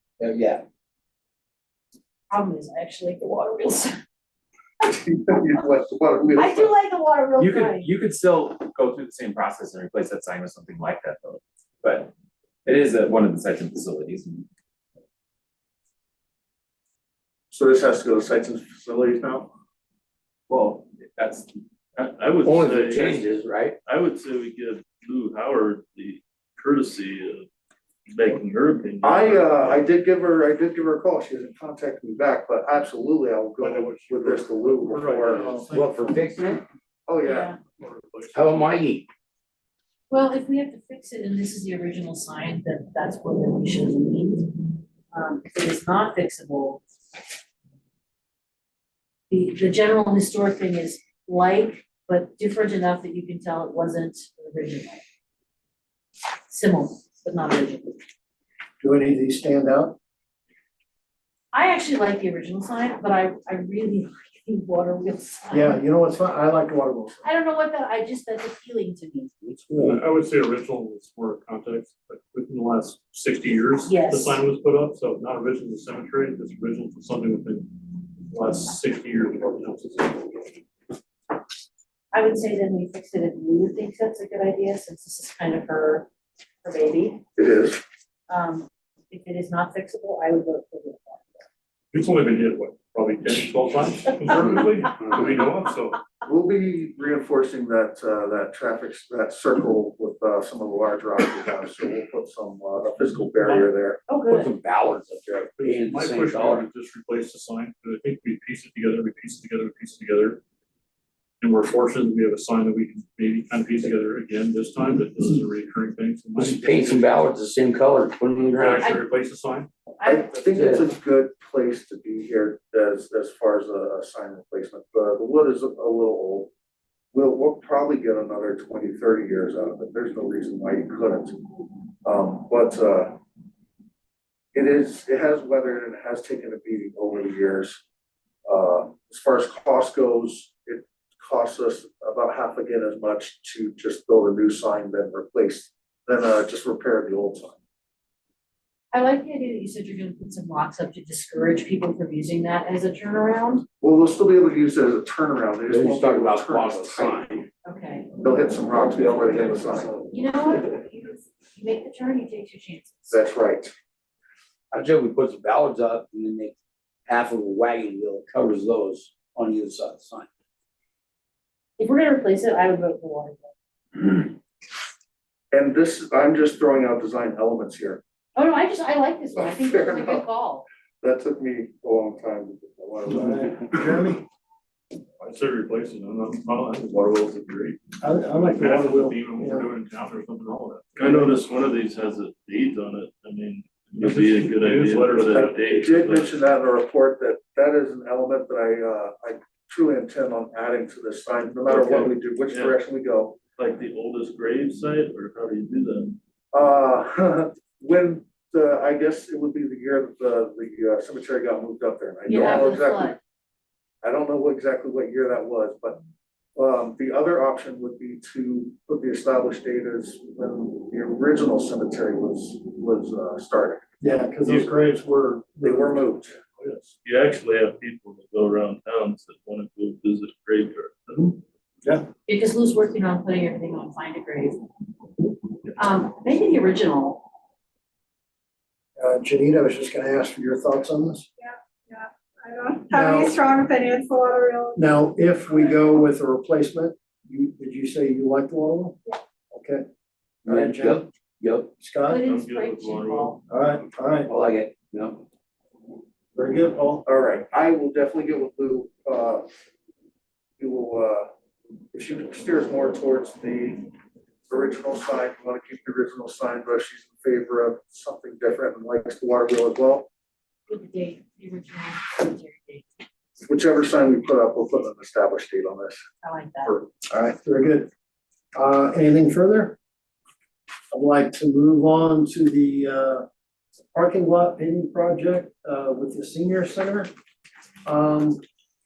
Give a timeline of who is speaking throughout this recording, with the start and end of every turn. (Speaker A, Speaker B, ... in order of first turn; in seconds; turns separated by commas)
Speaker A: 0.2-0.6, Speaker B: 2.3-3.9, Speaker C: 4.8-6.7, Speaker B: 6.3-7.9, Speaker D: 7.4-12.1, Speaker D: 12.6-14.5, Speaker C: 17.5-19.5, Speaker C: 20.5-20.8, Speaker D: 21.0-21.6, Speaker E: 22.0-23.3, Speaker A: 22.4-23.8, Speaker E: 23.8-27.4, Speaker E: 28.1-29.9, Speaker C: 29.0-35.6, Speaker F: 33.6-36.5, Speaker G: 35.3-35.7, Speaker A: 35.7-36.6, Speaker C: 37.1-37.5, Speaker B: 37.2-37.6, Speaker F: 37.6-38.8, Speaker A: 38.3-39.1, Speaker B: 40.1-46.8, Speaker B: 49.3-55.0, Speaker B: 56.5-58.0, Speaker G: 58.8-60.0, Speaker B: 61.5-65.8, Speaker G: 65.5-67.2, Speaker B: 67.2-69.3, Speaker A: 69.4-70.0, Speaker F: 69.7-80.5, Speaker B: 73.8-74.4, Speaker B: 82.1-86.1, Speaker B: 86.6-87.2, Speaker C: 87.3-87.8, Speaker B: 88.3-91.5, Speaker F: 91.9-96.0, Speaker B: 94.3-94.6, Speaker C: 96.2-104.0, Speaker F: 103.4-103.7, Speaker B: 104.1-104.5, Speaker A: 104.3-106.7, Speaker F: 105.6-110.4, Speaker F: 111.4-117.2, Speaker A: 116.3-118.9, Speaker F: 118.5-119.7, Speaker B: 118.8-119.0, Speaker B: 120.0-120.6, Speaker C: 120.0-126.5, Speaker A: 120.5-120.9, Speaker C: 127.1-131.4, Speaker C: 132.0-133.2, Speaker C: 134.5-137.8, Speaker C: 138.4-147.6, Speaker B: 148.9-153.6, Speaker C: 153.8-157.4, Speaker A: 155.7-157.4, Speaker B: 157.6-158.1, Speaker C: 158.2-159.9, Speaker B: 160.1-163.3, Speaker C: 163.1-163.7, Speaker A: 164.7-166.5, Speaker A: 167.1-170.3, Speaker B: 171.8-174.2, Speaker C: 175.5-178.0, Speaker B: 178.3-180.6, Speaker C: 179.3-180.2, Speaker C: 181.0-183.7, Speaker G: 183.1-184.2, Speaker F: 185.2-186.4, Speaker E: 185.5-187.8, Speaker G: 188.0-189.7, Speaker F: 188.2-191.1, Speaker E: 191.0-196.3, Speaker F: 194.0-195.6, Speaker C: 195.3-203.4, Speaker E: 201.7-202.8, Speaker E: 203.6-206.2, Speaker C: 206.5-213.2, Speaker B: 212.3-213.2, Speaker C: 214.0-216.0, Speaker C: 216.6-223.9, Speaker G: 224.0-226.2, Speaker C: 225.6-226.3, Speaker F: 226.6-226.9, Speaker E: 227.0-231.4, Speaker B: 232.3-234.7, Speaker B: 235.7-237.3, Speaker G: 239.0-241.3, Speaker H: 241.4-244.8, Speaker G: 242.9-243.4, Speaker G: 244.7-249.8, Speaker G: 250.4-251.1, Speaker A: 250.4-251.7, Speaker G: 251.8-252.3, Speaker B: 252.0-253.4, Speaker E: 252.2-253.4, Speaker G: 253.5-254.3, Speaker A: 254.3-255.2, Speaker G: 256.3-257.1, Speaker C: 257.0-259.5, Speaker C: 260.6-261.3, Speaker C: 261.9-263.9, Speaker C: 264.5-270.1, Speaker B: 270.7-272.9, Speaker C: 273.4-276.0, Speaker B: 276.2-276.8, Speaker G: 277.1-277.9, Speaker G: 278.6-279.8, Speaker G: 280.9-283.2, Speaker G: 283.9-287.1, Speaker G: 287.8-288.4